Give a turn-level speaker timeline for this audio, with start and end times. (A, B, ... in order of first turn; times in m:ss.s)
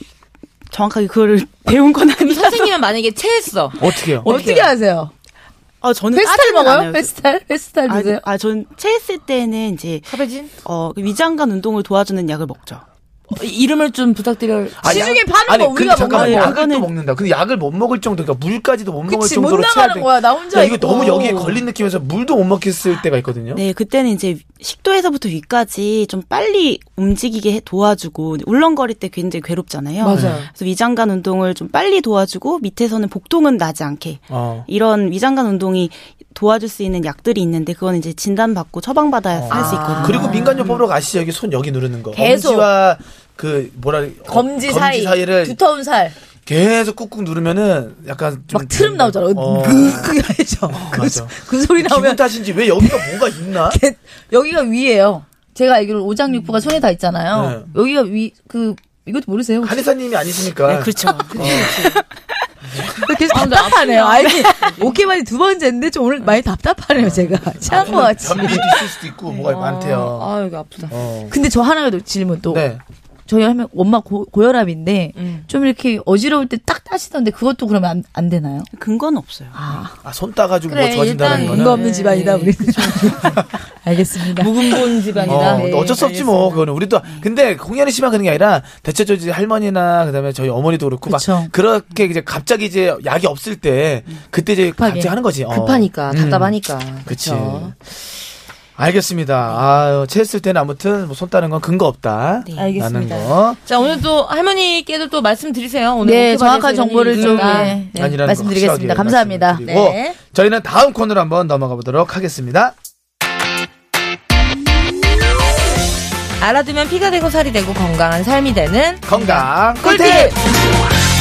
0:00.7-0:02.8 A
0:02.2-0:04.7 B
0:03.8-0:04.3 C
0:04.2-0:05.1 D
0:05.8-0:07.1 A
0:06.1-0:08.2 D
0:07.9-0:12.8 A
0:10.1-0:10.5 B
0:13.3-0:15.1 B
0:14.8-0:23.6 C
0:14.8-0:16.6 D
0:16.0-0:16.9 A
0:19.1-0:21.6 D
0:23.5-0:40.8 A
0:30.0-0:30.5 B
0:30.1-0:30.4 C
0:34.3-0:34.6 C
0:39.3-0:45.6 C
0:39.5-0:40.8 B
0:39.7-0:40.5 D
0:42.1-0:42.7 D
0:44.3-0:46.1 D
0:46.4-0:50.2 C
0:48.5-0:59.8 D
0:50.7-0:53.8 C
0:57.3-0:57.7 C
0:59.6-1:01.8 C
1:00.6-1:02.0 A
1:01.2-1:02.0 B
1:02.7-1:03.1 C
1:03.0-1:08.8 D
1:03.3-1:05.0 B
1:07.0-1:10.3 C
1:09.3-1:11.0 B
1:10.9-1:11.3 C
1:11.3-1:12.6 D
1:12.5-1:12.8 C
1:13.3-1:18.7 D
1:15.2-1:15.5 B
1:18.7-1:19.6 A
1:19.5-1:19.9 D
1:20.0-1:21.8 C
1:20.7-1:23.4 B
1:21.3-1:26.0 D
1:24.3-1:26.7 B
1:25.2-1:37.7 C
1:27.0-1:27.3 A
1:31.1-1:31.5 D
1:34.8-1:35.1 D
1:35.5-1:37.7 B
1:38.8-1:43.6 C
1:42.4-1:42.8 A
1:42.5-1:48.2 B
1:46.0-1:49.6 D
1:47.2-1:52.7 C
1:49.6-1:50.2 B
1:56.4-2:00.4 B
1:59.0-2:00.3 C
1:59.8-2:00.3 D